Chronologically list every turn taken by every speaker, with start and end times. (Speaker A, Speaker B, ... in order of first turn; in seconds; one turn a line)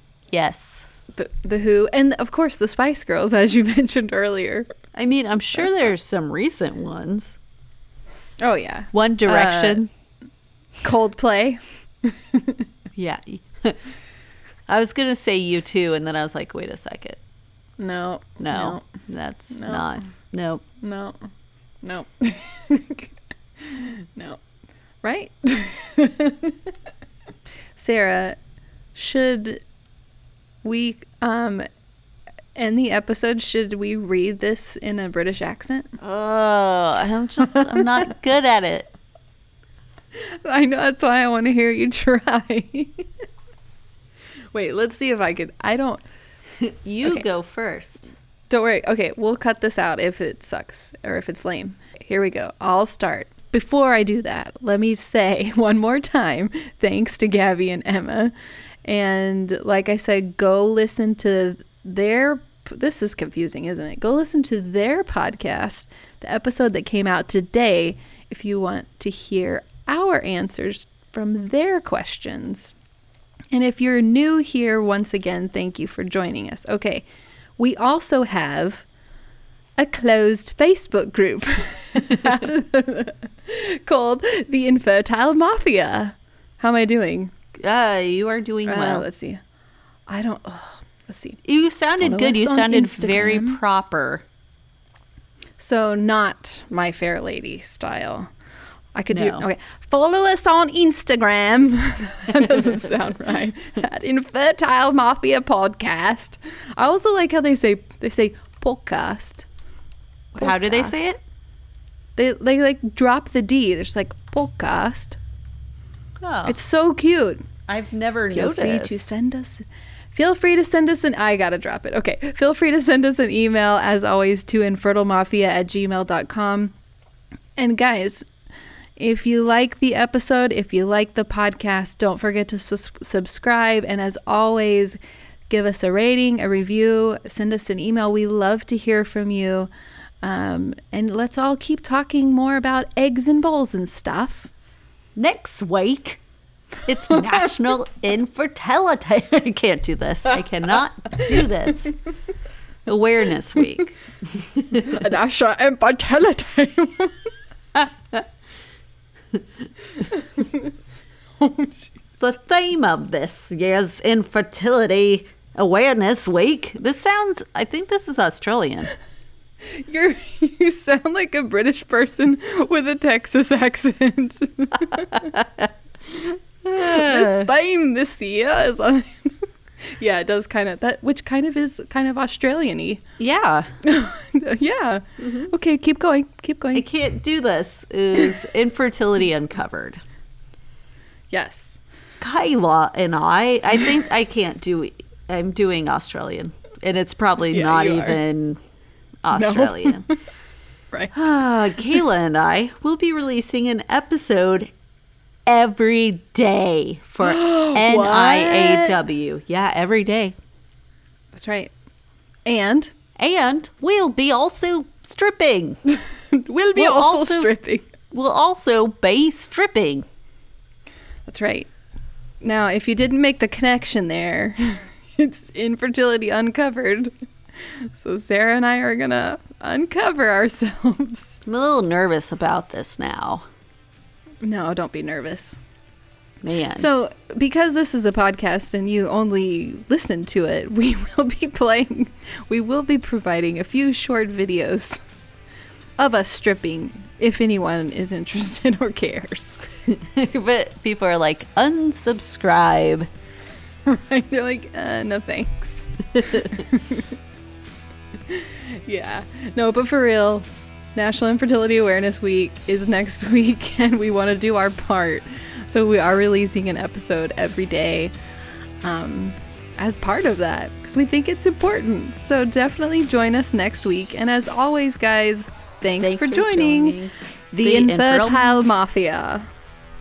Speaker A: 0.3-0.9
Speaker B: 1.1-4.7
Speaker A: 4.9-7.4
Speaker B: 8.4-9.8
Speaker A: 8.9-9.9
Speaker B: 10.8-12.6
Speaker A: 12.9-13.8
Speaker A: 14.7-17.2
Speaker B: 17.8-18.9
Speaker A: 18.4-20.6
Speaker B: 19.5-20.0
Speaker B: 20.8-21.2
Speaker B: 21.8-23.1
Speaker B: 23.6-24.4
Speaker B: 25.0-26.6
Speaker B: 27.8-28.4
Speaker B: 28.9-29.6
Speaker B: 30.6-31.7
Speaker B: 32.5-35.9
Speaker A: 36.0-38.9
Speaker B: 40.2-43.1
Speaker B: 44.5-46.0
Speaker A: 46.6-48.1
Speaker B: 48.5-58.3
Speaker B: 58.8-72.7
Speaker B: 73.5-77.0
Speaker B: 77.6-78.9
Speaker B: 79.8-87.3
Speaker A: 87.5-89.1
Speaker B: 88.7-89.4
Speaker B: 90.1-91.4
Speaker A: 91.4-94.2
Speaker B: 92.0-93.6
Speaker B: 95.6-98.3
Speaker B: 99.0-109.5
Speaker A: 99.1-99.4
Speaker B: 110.3-111.1
Speaker A: 110.4-111.2
Speaker B: 112.2-115.2
Speaker A: 116.2-116.6
Speaker B: 116.5-117.5
Speaker A: 117.7-119.0
Speaker B: 118.3-126.7
Speaker B: 127.6-128.2
Speaker B: 129.0-139.7
Speaker B: 140.2-144.5
Speaker A: 145.2-146.2
Speaker A: 146.9-152.0
Speaker A: 152.9-155.0
Speaker B: 154.8-157.3
Speaker B: 160.2-160.7
Speaker B: 161.4-162.0
Speaker A: 162.2-168.9
Speaker B: 169.7-175.4
Speaker A: 175.4-175.6
Speaker A: 176.6-177.5
Speaker B: 176.8-183.0
Speaker A: 183.2-183.7
Speaker B: 183.8-186.9
Speaker A: 185.2-185.5
Speaker A: 186.7-190.0
Speaker B: 191.3-191.8
Speaker A: 192.2-198.6
Speaker B: 197.5-198.2
Speaker A: 199.2-200.1
Speaker B: 199.3-200.1
Speaker A: 201.1-204.7
Speaker A: 205.5-210.3
Speaker B: 207.2-209.0
Speaker B: 211.3-211.7
Speaker B: 212.4-212.9
Speaker A: 213.2-215.8
Speaker B: 216.3-217.9
Speaker A: 216.8-217.5
Speaker A: 218.1-220.1
Speaker B: 221.3-221.7
Speaker B: 222.4-227.1
Speaker B: 227.6-231.4
Speaker A: 231.5-233.5
Speaker B: 234.4-235.6
Speaker A: 236.4-236.9
Speaker B: 236.8-245.0
Speaker B: 246.0-249.7
Speaker A: 249.9-253.1
Speaker B: 253.9-257.1
Speaker B: 258.3-268.1
Speaker B: 268.8-277.0
Speaker A: 276.0-278.7
Speaker B: 277.5-279.5